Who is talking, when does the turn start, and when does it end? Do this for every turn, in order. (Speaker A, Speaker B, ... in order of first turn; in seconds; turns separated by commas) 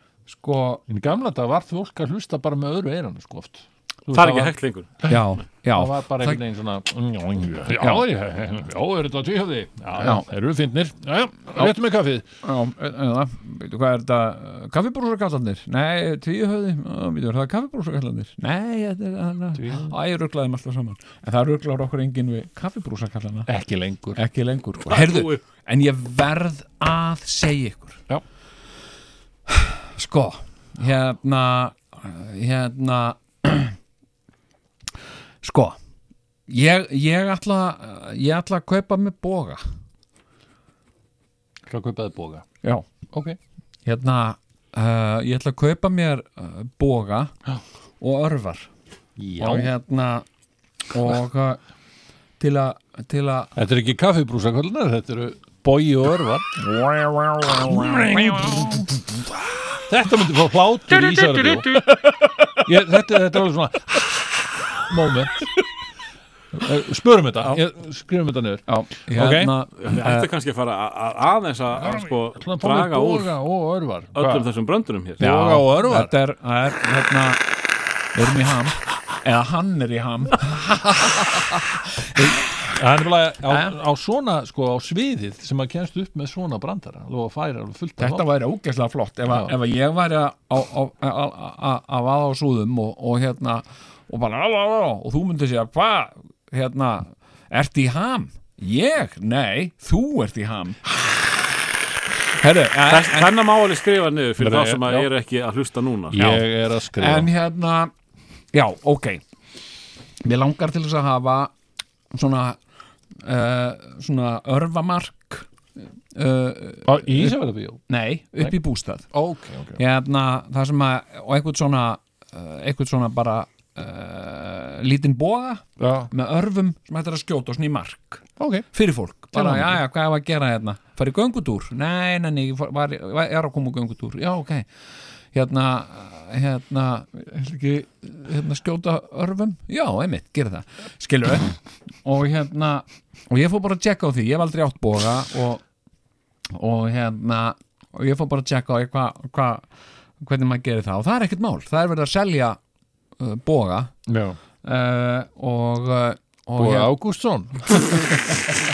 Speaker A: 0.3-0.8, Speaker B: 0.9-5.2, Speaker C: 4.1-5.0, Speaker A: 5.1-6.4, Speaker B: 5.7-12.3, Speaker A: 7.8-8.1, Speaker A: 10.0-10.2, Speaker A: 12.4-23.5, Speaker B: 19.6-19.9, Speaker B: 23.5-24.2, Speaker A: 24.1-28.0, Speaker C: 24.9-25.4, Speaker A: 29.5-33.8, Speaker A: 35.4-35.8, Speaker A: 36.5-39.6, Speaker B: 41.7-42.5, Speaker B: 43.1-43.4, Speaker A: 43.9-47.3, Speaker A: 48.0-48.7, Speaker B: 49.2-49.7, Speaker A: 49.4-50.3, Speaker A: 50.9-51.6, Speaker A: 52.4-53.5, Speaker B: 53.5-56.7, Speaker A: 56.6-58.8, Speaker B: 57.4-61.8, Speaker A: 61.8-62.6, Speaker B: 62.6-65.5, Speaker B: 66.5-69.5, Speaker A: 68.7-70.3, Speaker C: 69.8-73.3, Speaker B: 71.7-74.5, Speaker C: 74.2-75.2, Speaker B: 75.2-76.1, Speaker A: 75.2-77.4, Speaker A: 78.1-82.6, Speaker B: 82.7-88.2, Speaker A: 88.0-100.9, Speaker B: 89.3-89.5, Speaker A: 102.4-103.3, Speaker C: 102.9-106.2, Speaker B: 104.4-105.1, Speaker B: 106.1-107.3, Speaker A: 106.2-106.4, Speaker A: 107.0-107.9, Speaker A: 108.5-109.2, Speaker A: 110.2-111.5, Speaker A: 112.1-112.6, Speaker A: 113.2-115.5, Speaker A: 116.1-117.4, Speaker B: 116.8-117.8, Speaker A: 117.9-119.1, Speaker B: 119.1-119.8, Speaker A: 119.8-134.7, Speaker B: 125.8-126.1, Speaker B: 128.4-128.7, Speaker B: 129.3-129.8, Speaker A: 135.3-145.6, Speaker A: 146.5-149.7, Speaker A: 150.2-152.6, Speaker A: 153.2-153.9, Speaker B: 154.1-154.4, Speaker A: 154.6-156.9, Speaker B: 156.6-158.3, Speaker A: 157.8-158.1